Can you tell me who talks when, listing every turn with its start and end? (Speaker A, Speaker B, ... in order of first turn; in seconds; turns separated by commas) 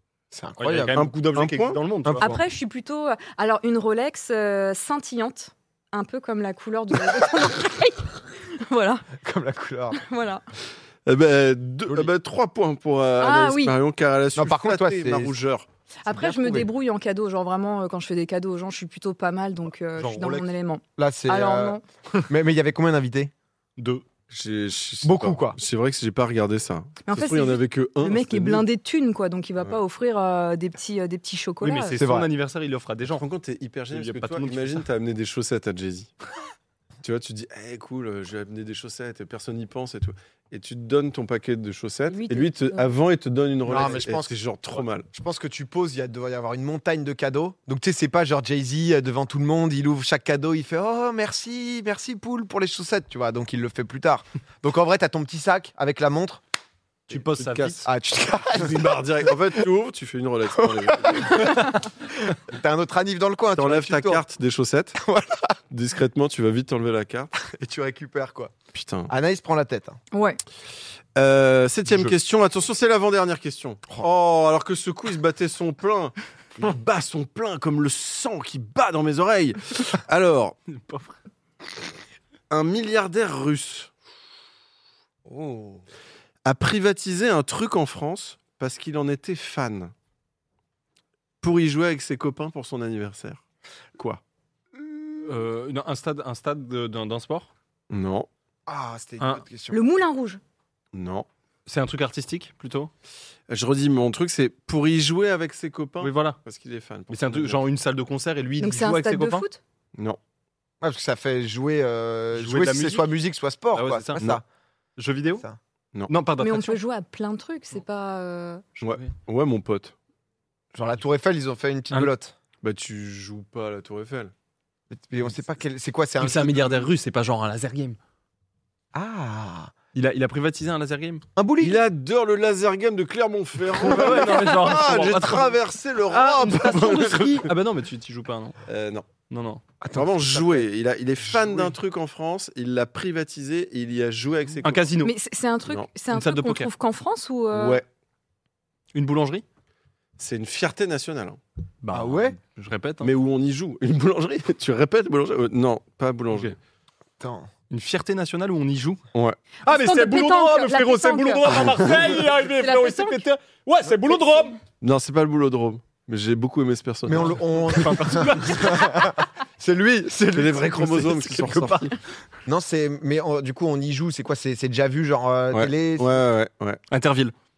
Speaker A: 0.3-1.1, Speaker B: 0.6-2.3, Speaker C: 0.9-1.8, Speaker A: 2.0-2.4, Speaker D: 2.1-9.1, Speaker A: 9.2-10.0, Speaker D: 9.9-10.4, Speaker C: 11.1-15.7, Speaker D: 13.2-13.8, Speaker A: 14.3-15.3, Speaker D: 16.0-21.8, Speaker A: 16.1-16.7, Speaker B: 20.0-20.5, Speaker A: 21.0-23.3, Speaker B: 23.8-24.0, Speaker C: 24.3-28.6, Speaker A: 25.0-25.6, Speaker D: 27.1-32.0, Speaker B: 31.6-33.2, Speaker A: 31.9-32.3, Speaker C: 33.0-36.1, Speaker B: 33.9-34.8, Speaker C: 37.0-45.1, Speaker D: 42.1-42.9, Speaker A: 43.6-44.3, Speaker A: 45.1-56.4, Speaker C: 57.1-57.8, Speaker B: 57.1-57.9, Speaker A: 57.8-59.6, Speaker C: 58.5-61.7, Speaker A: 60.6-64.2, Speaker C: 63.5-65.0, Speaker A: 65.0-65.6, Speaker C: 65.7-67.3, Speaker A: 67.4-68.5, Speaker C: 68.7-69.1, Speaker A: 69.1-70.0, Speaker D: 70.1-70.4, Speaker C: 71.2-80.6, Speaker B: 80.7-81.2, Speaker C: 82.5-83.9, Speaker A: 85.2-85.8, Speaker C: 86.4-89.9, Speaker C: 91.4-93.4, Speaker A: 94.8-95.2, Speaker B: 95.2-97.5, Speaker C: 97.9-98.3, Speaker A: 98.7-99.8, Speaker D: 99.7-100.4, Speaker C: 100.9-101.3, Speaker B: 101.7-102.9, Speaker C: 103.5-107.6, Speaker B: 106.0-106.4, Speaker B: 107.1-109.4, Speaker D: 108.6-109.6, Speaker A: 110.8-114.4, Speaker B: 112.3-113.2, Speaker B: 113.7-114.3, Speaker B: 115.0-115.4, Speaker B: 116.1-116.8, Speaker D: 116.4-118.6, Speaker C: 118.8-119.9, Speaker A: 120.7-122.3, Speaker C: 122.6-124.3, Speaker A: 124.9-126.9, Speaker B: 126.2-128.0, Speaker A: 128.9-129.7, Speaker B: 129.9-131.2, Speaker A: 131.3-131.8, Speaker C: 131.6-137.5, Speaker B: 133.8-135.6, Speaker B: 136.1-138.6, Speaker C: 138.7-139.1, Speaker B: 139.3-139.6, Speaker A: 139.8-140.7, Speaker C: 139.9-144.9, Speaker A: 141.2-141.7, Speaker B: 144.6-145.1, Speaker D: 145.0-147.8, Speaker B: 146.1-146.7, Speaker C: 147.5-147.8, Speaker B: 148.9-149.4, Speaker C: 150.2-151.4, Speaker B: 151.8-153.1, Speaker A: 151.9-152.4, Speaker C: 153.0-156.6, Speaker A: 157.2-157.5, Speaker B: 157.7-159.0, Speaker D: 159.6-163.2, Speaker B: 159.6-164.6, Speaker C: 164.8-167.9, Speaker A: 167.1-171.5, Speaker B: 167.7-169.2, Speaker C: 170.3-172.0, Speaker B: 171.3-171.9, Speaker A: 172.4-176.2, Speaker C: 175.5-176.8, Speaker B: 176.9-177.3